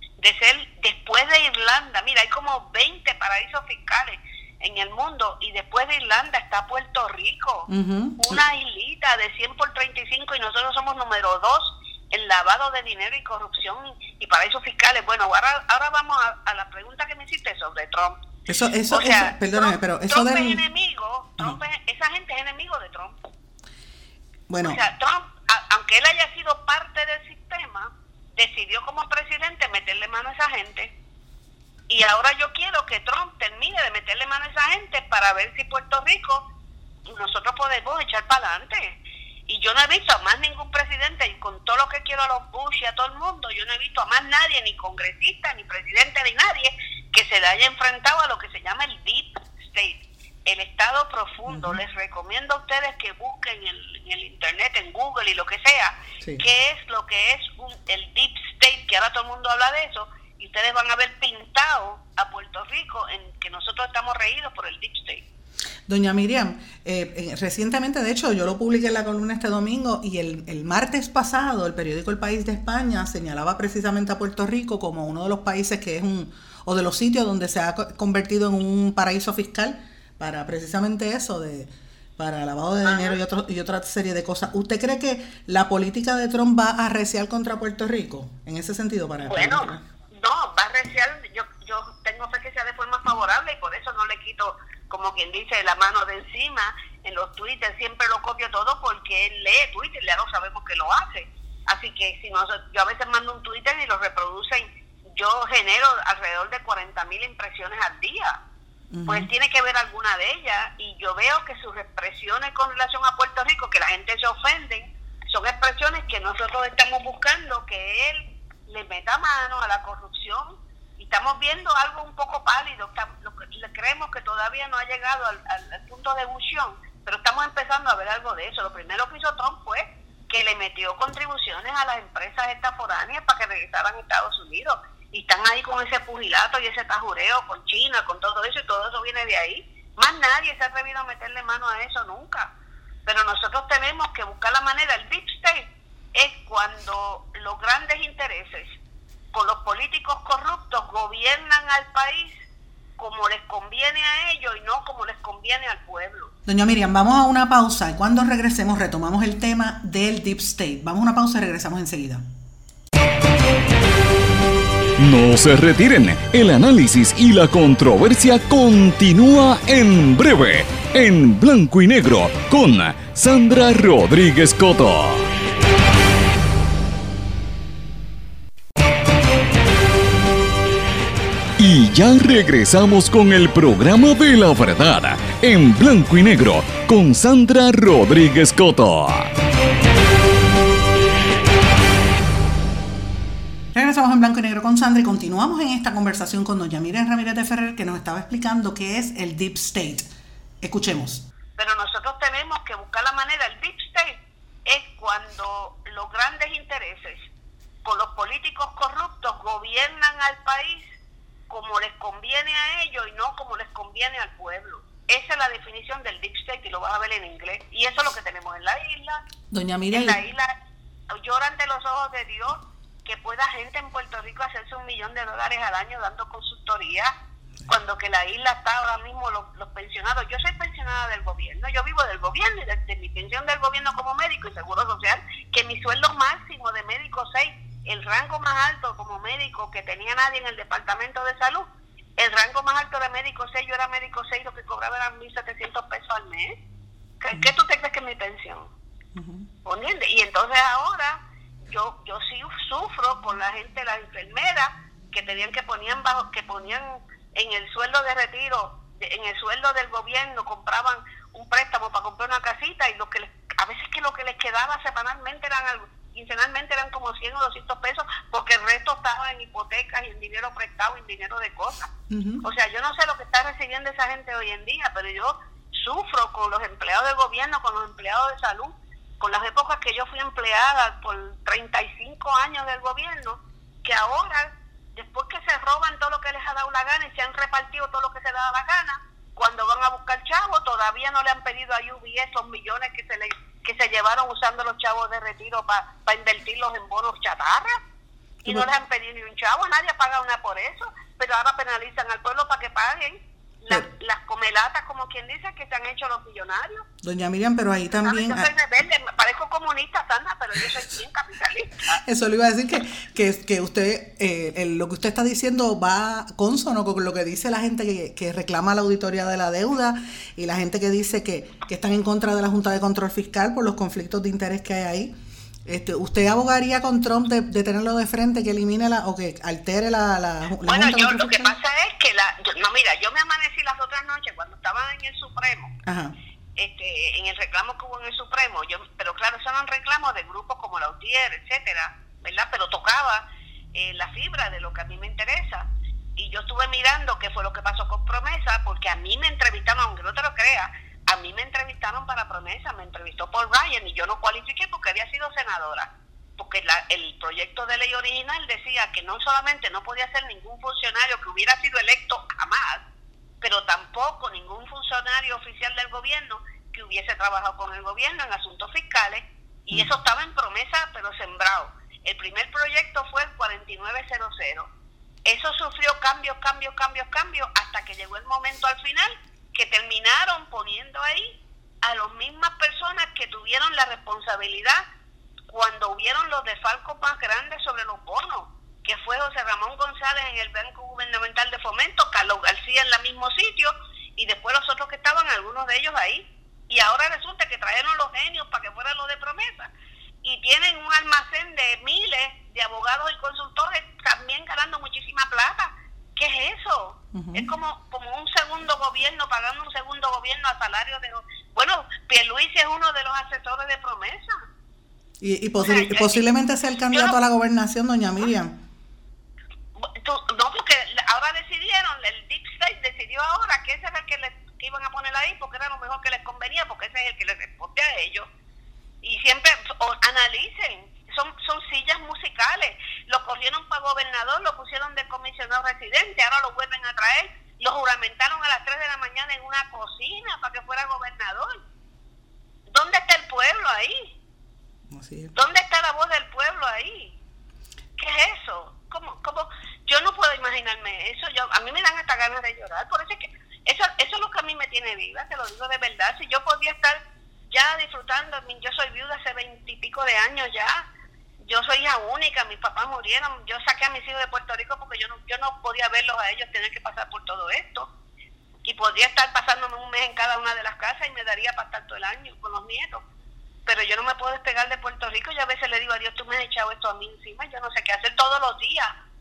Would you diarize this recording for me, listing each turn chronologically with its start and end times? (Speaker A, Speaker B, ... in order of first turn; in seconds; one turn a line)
Speaker A: 0.2-18.2
Speaker B: 7.7-8.4
Speaker B: 18.5-20.6
Speaker A: 18.9-23.2
Speaker B: 24.5-24.8
Speaker A: 24.6-30.9
Speaker A: 31.9-36.5
Speaker A: 37.1-39.0
Speaker A: 39.5-65.2
Speaker B: 51.5-51.8
Speaker B: 65.9-89.8
Speaker A: 82.8-83.2
Speaker A: 89.2-108.4
Speaker B: 108.9-109.3
Speaker A: 109.1-142.5
Speaker A: 143.1-148.8
Speaker A: 149.3-152.4
Speaker A: 153.0-156.3
Speaker B: 156.5-162.2
Speaker C: 165.0-175.3
Speaker C: 181.6-189.3
Speaker B: 193.7-200.1
Speaker B: 200.6-201.2
Speaker A: 201.6-207.3
Speaker A: 207.8-210.9
Speaker A: 211.5-219.2
Speaker B: 219.5-220.2
Speaker A: 219.9-220.5
Speaker A: 221.1-227.1
Speaker A: 227.7-246.6
Speaker A: 247.2-248.7
Speaker B: 249.2-249.5
Speaker A: 249.7-271.9
Speaker B: 272.1-272.4
Speaker A: 272.4-297.8
Speaker A: 298.4-306.9
Speaker B: 307.0-308.5
Speaker A: 307.9-312.0
Speaker B: 312.0-325.1
Speaker B: 325.7-331.6
Speaker A: 330.7-335.7
Speaker B: 335.9-336.1
Speaker A: 336.6-343.2
Speaker A: 343.8-362.8
Speaker A: 363.4-374.7
Speaker A: 375.3-384.8
Speaker A: 385.5-399.7
Speaker A: 400.2-414.4
Speaker B: 407.1-407.5
Speaker B: 415.2-418.6
Speaker A: 415.6-416.2
Speaker A: 419.8-428.3
Speaker A: 429.0-441.6
Speaker A: 442.7-444.1
Speaker B: 444.9-445.4
Speaker A: 445.4-447.2
Speaker A: 448.0-460.9
Speaker A: 461.5-467.9
Speaker A: 468.6-473.0
Speaker A: 473.7-478.9